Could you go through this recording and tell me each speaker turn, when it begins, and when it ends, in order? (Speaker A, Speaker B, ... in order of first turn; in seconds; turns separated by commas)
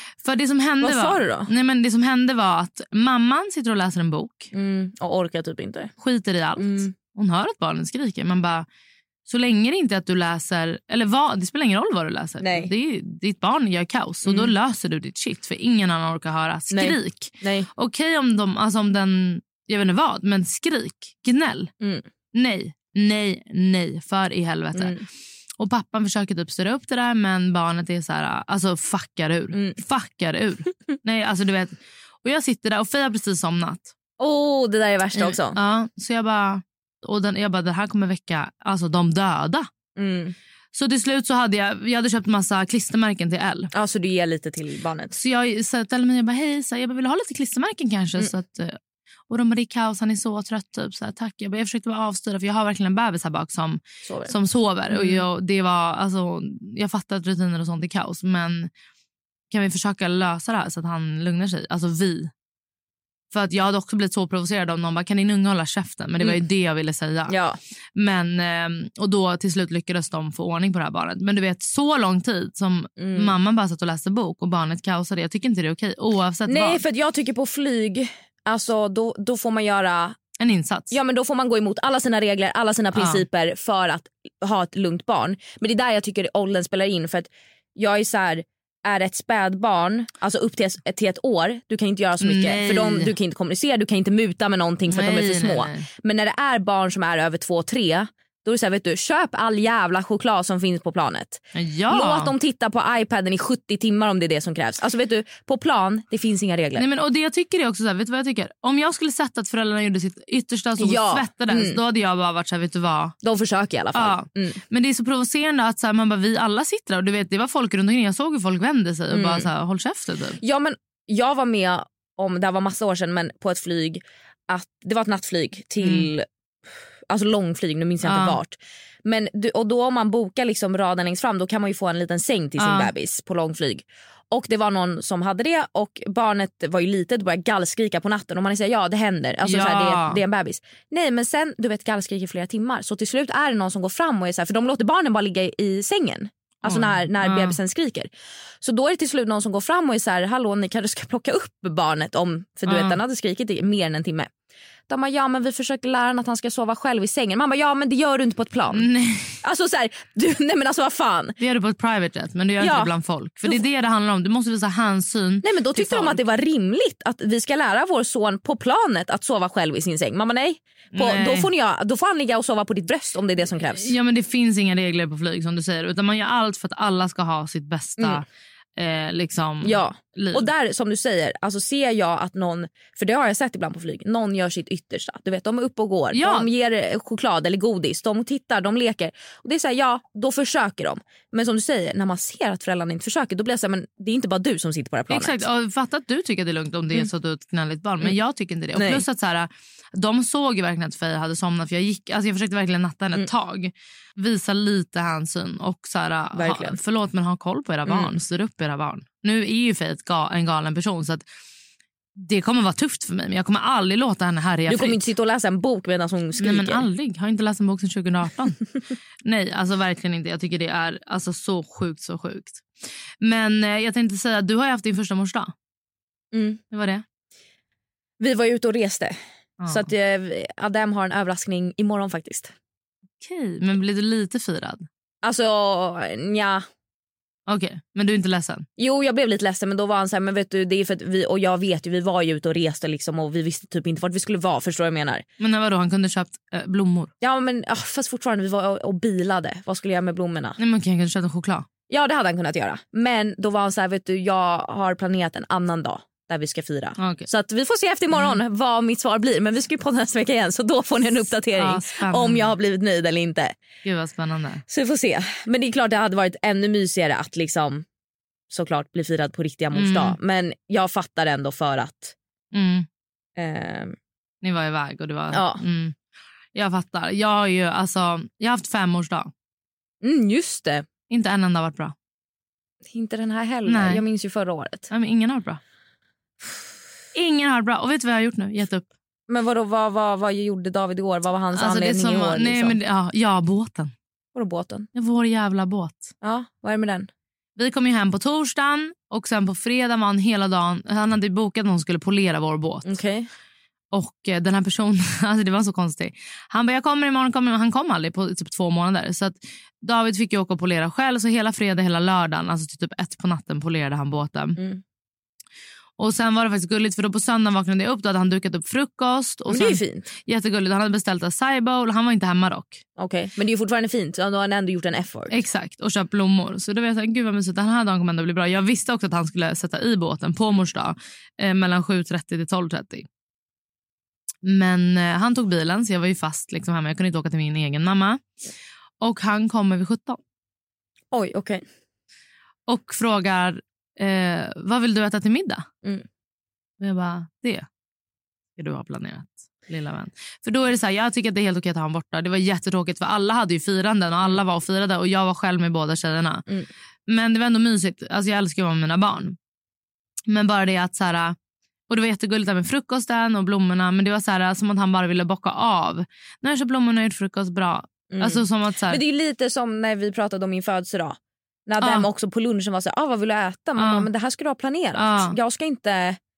Speaker A: 0.2-4.5, Speaker B: 0.8-1.5, Speaker B: 4.5-5.9, Speaker A: 6.0-8.7, Speaker B: 6.6-6.9, Speaker A: 9.3-21.7, Speaker B: 12.4-12.7, Speaker B: 14.2-14.5, Speaker B: 16.7-17.7, Speaker A: 22.3-24.9, Speaker B: 24.7-25.0, Speaker A: 25.6-33.9, Speaker B: 34.2-35.6, Speaker A: 35.2-39.7, Speaker B: 40.0-40.3, Speaker A: 40.7-43.7, Speaker B: 43.7-45.2, Speaker A: 45.1-48.8, Speaker A: 49.3-58.7, Speaker B: 54.0-54.3, Speaker B: 54.9-55.2, Speaker A: 59.5-62.3, Speaker A: 63.3-67.3, Speaker B: 67.3-67.6, Speaker A: 68.0-76.8, Speaker B: 73.0-73.3, Speaker B: 76.5-80.2, Speaker A: 80.4-80.9, Speaker B: 80.9-106.8, Speaker A: 83.0-83.2, Speaker A: 92.2-93.1, Speaker A: 94.9-95.8, Speaker A: 101.5-102.3, Speaker A: 106.8-113.2, Speaker B: 110.8-111.8, Speaker B: 113.2-114.6, Speaker A: 113.9-120.4, Speaker B: 119.1-119.5, Speaker B: 120.4-126.2, Speaker A: 125.8-126.1, Speaker B: 127.1-148.1, Speaker A: 128.0-128.4, Speaker A: 132.6-132.9, Speaker A: 139.4-140.2, Speaker A: 146.6-147.6, Speaker B: 148.6-154.3, Speaker A: 152.7-153.0, Speaker B: 154.9-158.9, Speaker A: 158.7-159.4, Speaker B: 159.4-161.3, Speaker A: 161.4-166.2, Speaker B: 162.6-162.9, Speaker B: 165.4-173.9, Speaker A: 170.9-171.5, Speaker A: 173.8-178.2, Speaker A: 178.8-180.5, Speaker B: 179.6-195.4, Speaker A: 186.1-186.5, Speaker A: 195.1-211.2, Speaker B: 198.7-199.0, Speaker B: 206.3-206.8, Speaker A: 212.2-215.0, Speaker B: 214.7-216.8, Speaker A: 216.4-218.6, Speaker A: 219.2-222.6, Speaker A: 223.2-225.5, Speaker B: 226.3-226.6, Speaker A: 226.7-227.0, Speaker B: 228.2-232.5, Speaker A: 229.6-229.9, Speaker A: 233.2-234.8, Speaker B: 235.2-236.6, Speaker A: 237.5-238.7, Speaker B: 238.8-245.2, Speaker A: 245.4-247.1, Speaker B: 247.2-250.6, Speaker A: 250.6-251.7, Speaker B: 251.9-263.6, Speaker A: 257.0-257.3, Speaker A: 258.1-258.4, Speaker A: 261.5-262.5, Speaker A: 263.8-264.6, Speaker B: 264.7-267.8, Speaker B: 268.5-272.1, Speaker A: 269.7-270.1, Speaker A: 272.5-272.9, Speaker B: 273.4-273.9, Speaker A: 274.4-275.9, Speaker B: 275.3-275.6, Speaker A: 276.5-279.3, Speaker B: 280.0-280.9, Speaker A: 281.1-281.9, Speaker B: 282.9-284.9, Speaker A: 283.7-284.0, Speaker A: 284.9-285.6, Speaker A: 287.1-288.9, Speaker B: 289.3-292.8, Speaker A: 291.5-293.9, Speaker B: 294.3-294.9, Speaker A: 294.9-296.1, Speaker B: 296.2-297.1, Speaker A: 297.6-302.9, Speaker B: 302.8-303.3, Speaker A: 303.9-314.6, Speaker B: 314.6-314.8, Speaker A: 316.0-322.8, Speaker B: 319.5-320.1, Speaker B: 323.0-325.3, Speaker A: 325.3-333.1, Speaker A: 334.4-338.2, Speaker A: 339.0-340.2, Speaker B: 341.1-341.6, Speaker A: 342.7-345.6, Speaker A: 346.8-347.6, Speaker A: 348.6-356.4, Speaker A: 357.1-359.4, Speaker A: 360.3-361.4, Speaker A: 361.9-369.0, Speaker B: 368.1-376.2, Speaker A: 371.8-372.1, Speaker A: 373.8-374.1, Speaker A: 374.9-375.4